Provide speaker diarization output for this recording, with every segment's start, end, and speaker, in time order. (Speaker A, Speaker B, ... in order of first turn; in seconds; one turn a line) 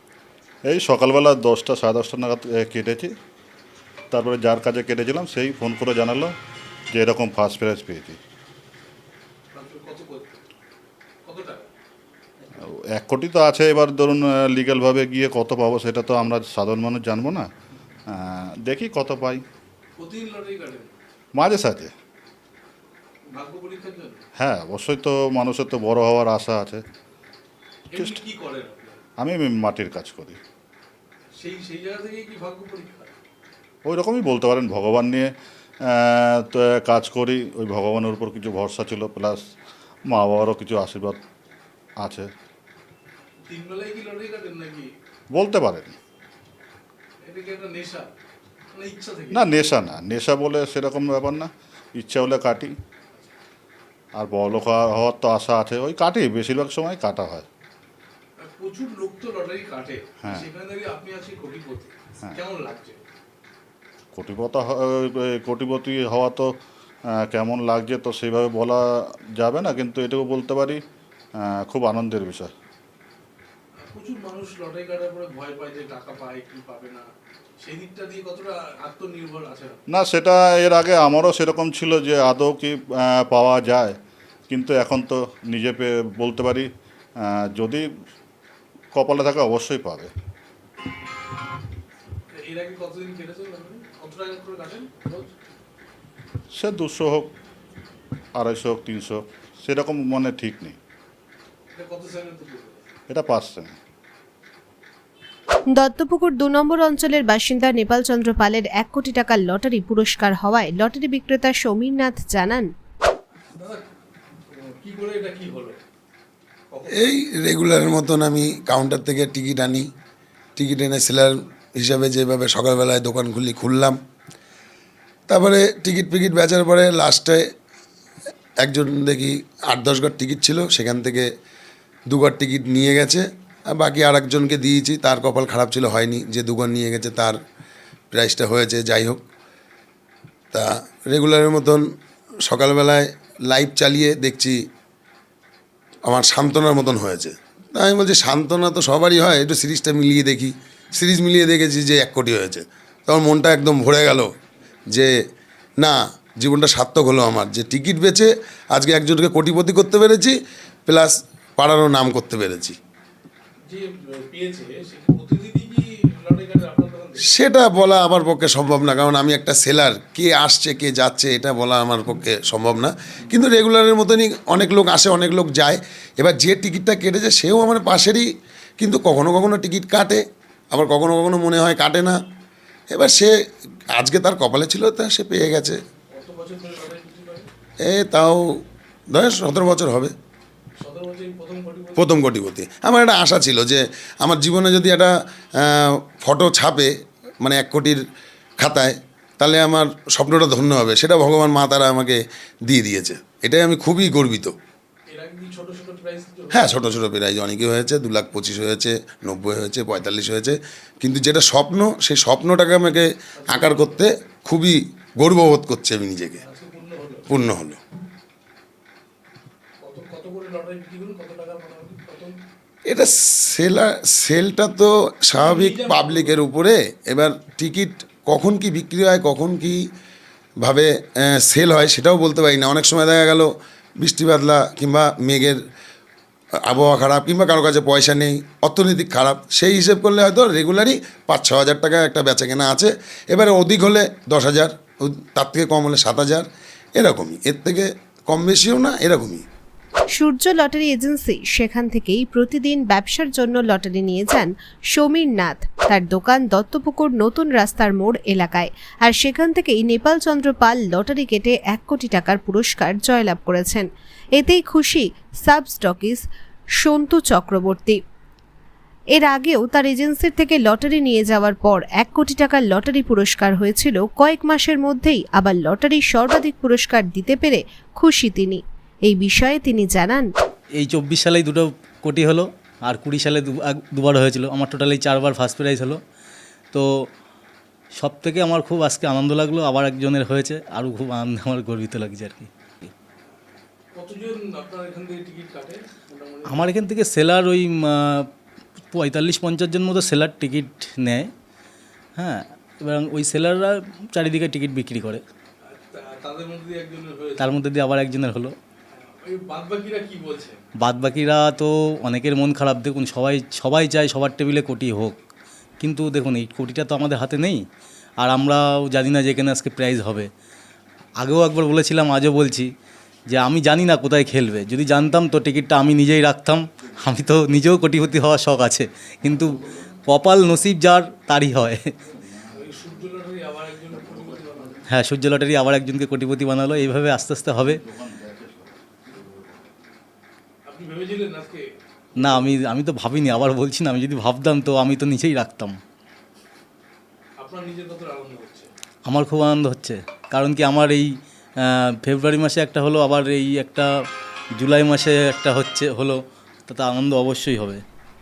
Speaker A: 0.7-3.1
Speaker A: 4.1-6.3
Speaker A: 6.9-8.2
Speaker B: 9.5-10.4
Speaker B: 11.2-11.7
Speaker A: 12.6-17.5
Speaker A: 18.1-19.4
Speaker B: 20.0-20.9
Speaker A: 21.4-21.9
Speaker B: 23.3-24.2
Speaker A: 24.4-26.8
Speaker B: 27.9-29.0
Speaker A: 27.9-28.2
Speaker A: 29.2-30.4
Speaker B: 31.4-33.1
Speaker A: 33.9-35.3
Speaker A: 35.9-39.4
Speaker A: 40.1-41.2
Speaker A: 42.0-42.3
Speaker B: 43.5-44.9
Speaker A: 45.3-46.0
Speaker B: 47.2-48.1
Speaker B: 48.7-49.6
Speaker A: 49.3-52.8
Speaker A: 54.1-57.5
Speaker B: 58.4-63.0
Speaker A: 60.2-60.5
Speaker A: 64.1-66.5
Speaker A: 67.1-70.8
Speaker A: 71.4-72.5
Speaker B: 73.9-77.1
Speaker B: 77.6-79.8
Speaker A: 79.9-84.0
Speaker A: 84.5-86.7
Speaker A: 87.2-87.9
Speaker A: 88.9-90.1
Speaker B: 92.4-95.3
Speaker A: 96.5-97.3
Speaker A: 98.4-100.8
Speaker B: 101.8-102.8
Speaker A: 103.1-103.8
Speaker C: 105.8-112.7
Speaker B: 113.5-113.9
Speaker B: 114.5-115.8
Speaker B: 116.7-117.1
Speaker D: 116.9-119.9
Speaker D: 120.6-124.0
Speaker D: 125.3-127.4
Speaker D: 128.6-131.3
Speaker D: 132.1-137.4
Speaker D: 138.1-139.2
Speaker D: 140.5-141.8
Speaker D: 142.4-144.6
Speaker D: 146.1-154.3
Speaker D: 155.8-162.8
Speaker B: 163.7-167.3
Speaker D: 167.3-178.3
Speaker D: 178.8-182.2
Speaker D: 182.9-183.3
Speaker D: 183.9-185.8
Speaker B: 186.1-187.5
Speaker D: 187.8-190.1
Speaker B: 190.8-192.1
Speaker D: 192.0-196.9
Speaker D: 197.4-198.0
Speaker D: 198.6-204.6
Speaker B: 205.1-206.9
Speaker D: 206.5-216.4
Speaker B: 213.4-214.0
Speaker B: 216.4-217.3
Speaker D: 217.3-217.8
Speaker B: 219.8-222.4
Speaker D: 222.9-229.9
Speaker B: 225.4-226.4
Speaker D: 230.6-235.6
Speaker D: 236.6-246.5
Speaker D: 247.0-249.4
Speaker C: 250.2-263.9
Speaker C: 264.4-266.2
Speaker C: 266.8-268.0
Speaker C: 269.2-280.3
Speaker E: 280.8-286.0
Speaker E: 288.0-292.9
Speaker B: 293.9-296.7
Speaker E: 296.5-298.3
Speaker E: 298.9-301.3
Speaker E: 302.2-305.2
Speaker B: 305.7-307.5
Speaker E: 307.4-308.6
Speaker B: 309.2-310.6
Speaker E: 310.8-315.2
Speaker E: 315.8-317.6
Speaker E: 318.2-320.3
Speaker E: 321.2-322.7
Speaker E: 323.3-331.9
Speaker A: 332.3-333.0
Speaker B: 332.5-334.8
Speaker A: 333.9-334.8
Speaker E: 334.9-337.8
Speaker A: 337.7-339.5
Speaker B: 340.7-341.7
Speaker E: 342.2-345.8
Speaker B: 342.2-342.5
Speaker B: 347.4-348.7
Speaker E: 349.1-351.1
Speaker E: 351.6-353.9
Speaker E: 354.6-357.8